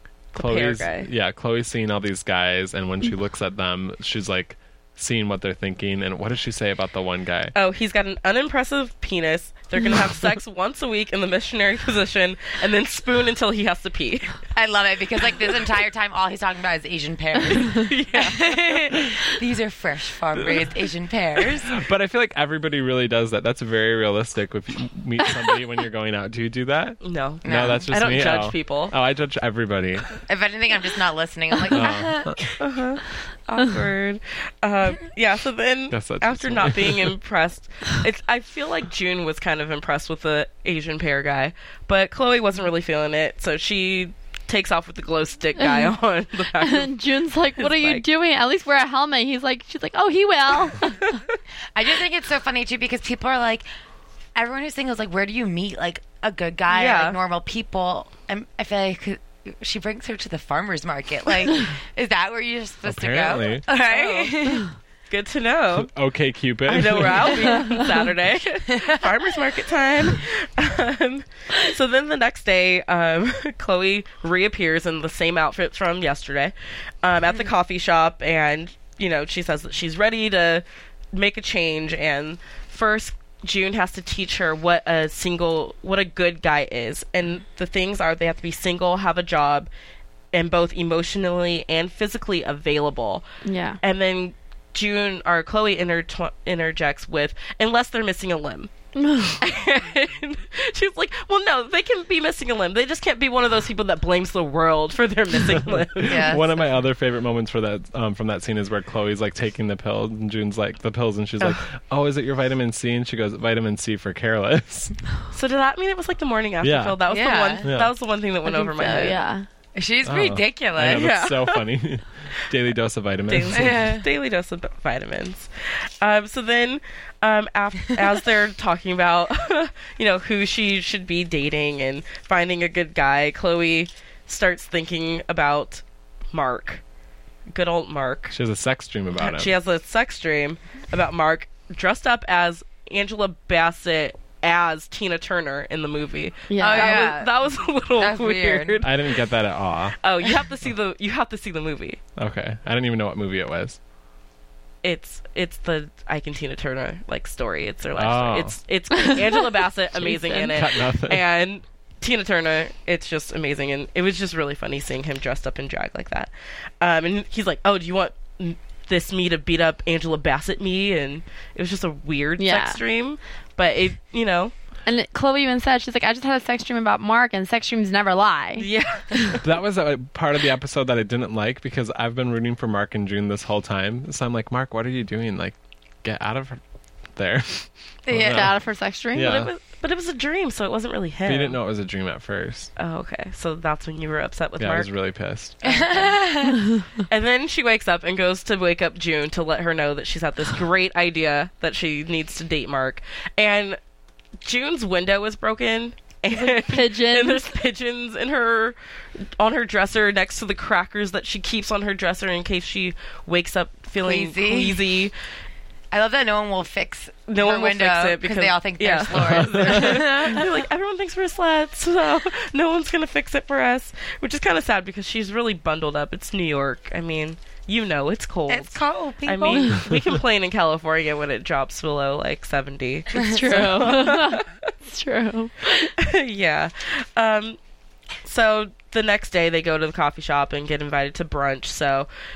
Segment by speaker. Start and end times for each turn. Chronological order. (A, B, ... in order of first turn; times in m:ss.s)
0:00.3-0:07.5 A
0:00.4-0:01.1 B
0:07.5-0:14.4 B
0:14.6-0:21.7 C
0:17.5-0:18.9 B
0:21.7-0:30.1 A
0:27.0-0:28.9 B
0:27.4-0:27.9 C
0:30.2-0:32.4 C
0:31.7-0:32.4 A
0:32.6-0:47.0 B
0:35.9-0:37.1 A
0:45.6-0:45.9 D
0:46.6-0:51.1 D
0:47.6-0:48.0 B
0:51.7-0:53.7 C
0:54.3-1:04.7 C
0:56.7-0:57.2 B
1:02.8-1:03.6 A
1:03.8-1:04.5 B
1:05.1-1:05.9 B
1:05.7-1:07.5 A
1:06.7-1:29.7 B
1:30.3-1:33.2 B
1:33.4-1:33.8 D
1:33.8-1:38.7 B
1:39.0-1:39.4 D
1:39.3-1:46.4 B
1:46.0-1:55.0 A
1:46.0-1:46.6 C
1:55.3-1:59.2 B
1:56.6-1:57.0 A
1:57.1-1:57.6 C
1:57.6-1:57.9 A
1:58.4-1:59.4 D
1:59.7-2:01.1 C
2:00.0-2:04.0 A
2:00.8-2:01.7 B
2:03.3-2:05.5 B
2:03.5-2:04.0 C
2:06.0-2:16.8 B
2:17.5-2:18.3 B
2:18.3-2:19.5 A
2:19.2-2:29.2 B
2:26.5-2:27.0 D
2:26.6-2:27.3 C
2:28.0-2:28.8 C
2:28.8-2:30.0 A
2:30.0-2:32.0 B
2:32.2-2:33.8 A
2:34.8-2:54.5 B
2:38.0-2:38.6 A
2:39.0-2:39.3 D
2:40.0-2:40.5 D
2:40.4-2:41.2 A
2:52.4-2:52.8 D
2:54.8-2:59.3 D
2:58.6-2:59.4 B
2:59.4-3:06.6 A
3:07.1-3:08.6 A
3:08.1-3:08.5 C
3:08.1-3:09.4 D
3:09.1-3:09.5 A
3:09.2-3:11.6 B
3:11.2-3:12.7 A
3:12.8-3:14.9 B
3:14.6-3:15.8 A
3:15.6-3:16.1 B
3:15.6-3:16.6 C
3:17.1-3:23.8 B
3:24.4-3:28.8 B
3:26.3-3:27.5 D
3:29.4-3:35.1 B
3:34.0-3:34.8 C
3:35.9-3:40.6 C
3:37.3-3:54.5 B
3:39.1-3:40.3 A
3:48.5-3:49.8 C
3:53.1-3:55.9 D
3:53.1-3:53.5 C
3:56.0-3:57.6 B
3:58.2-4:02.1 B